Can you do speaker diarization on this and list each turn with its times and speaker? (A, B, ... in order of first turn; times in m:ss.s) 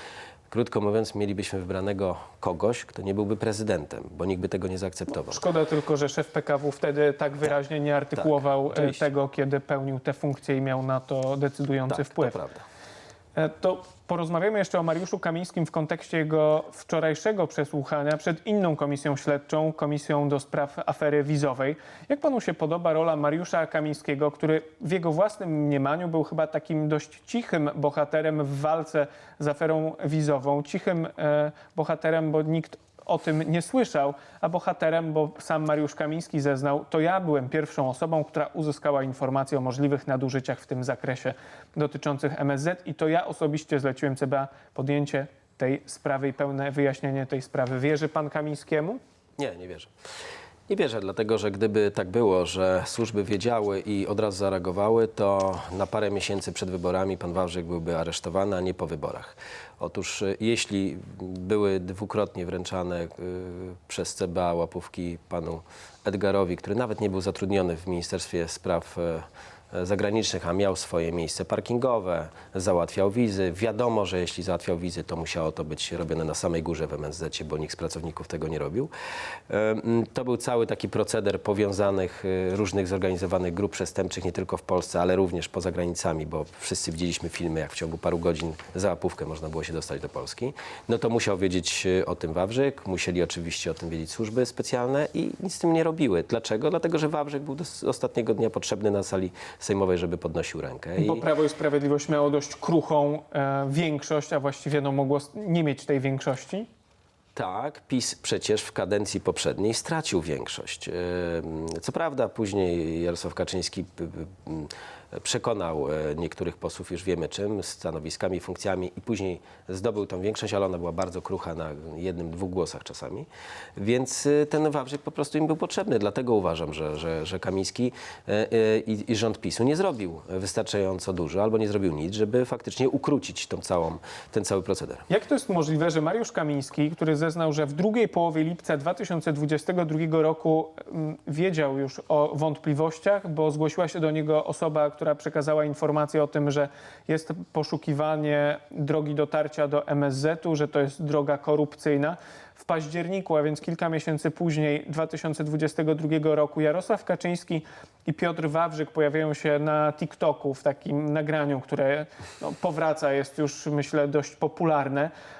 0:00.5-0:05.4 A
0:05.2-0:12.4 B
0:08.2-0:09.0 A
0:11.9-0:12.6 A
0:13.3-0:49.0 B
0:49.4-0:49.9 A
0:50.7-1:18.9 A
1:19.5-1:41.2 A
1:41.0-1:46.7 B
1:47.4-2:15.0 A
2:15.1-2:45.1 B